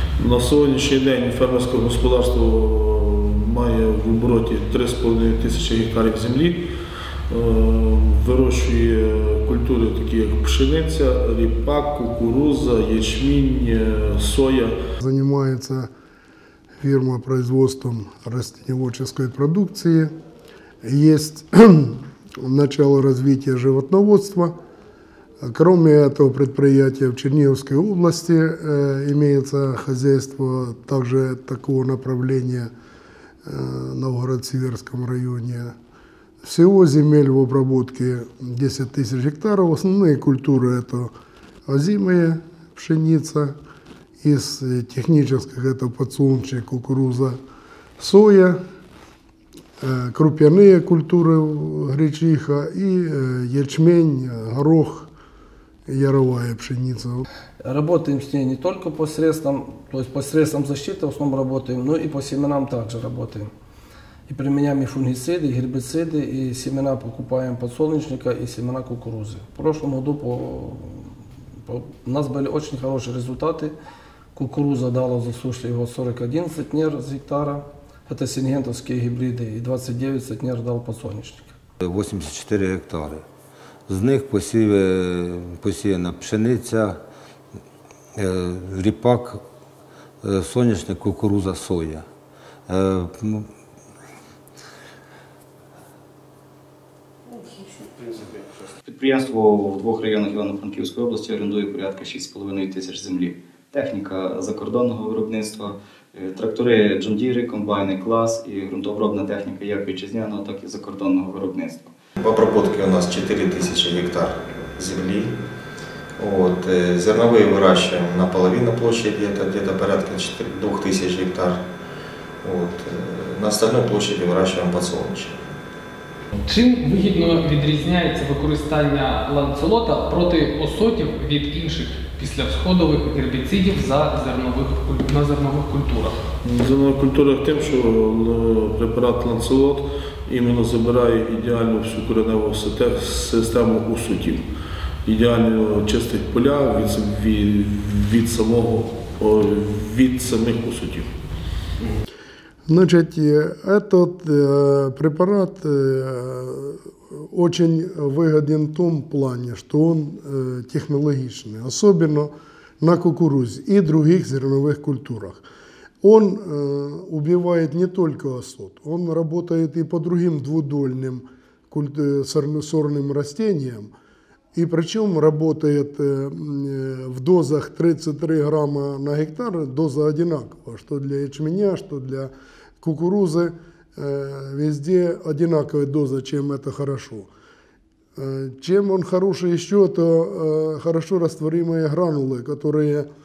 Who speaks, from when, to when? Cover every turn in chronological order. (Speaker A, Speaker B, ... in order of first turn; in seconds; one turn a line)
Speaker A: 0.2-6.7
Speaker A: 7.3-14.8
Speaker B: 15.0-15.9
Speaker B: 16.8-20.1
Speaker B: 20.8-24.5
Speaker B: 25.4-32.7
Speaker B: 33.5-35.7
Speaker B: 36.4-41.1
Speaker B: 41.7-43.5
Speaker B: 44.2-47.4
Speaker B: 48.0-48.6
Speaker B: 49.8-55.1
Speaker B: 55.9-57.2
Speaker C: 57.6-63.5
Speaker C: 64.3-71.1
Speaker C: 71.7-73.7
Speaker C: 74.3-81.5
Speaker D: 81.8-83.2
Speaker D: 83.9-87.0
Speaker D: 88.2-89.4
Speaker D: 90.2-92.0
Speaker D: 92.7-93.5
Speaker E: 98.8-112.0
Speaker F: 112.2-115.4
Speaker F: 116.2-121.6
Speaker F: 122.4-125.4
Speaker G: 126.5-136.2
Speaker A: 136.4-144.4
Speaker A: 145.1-151.1
Speaker B: 152.7-165.4
Speaker B: 166.0-173.9
Speaker B: 174.6-187.3
Speaker B: 188.2-193.1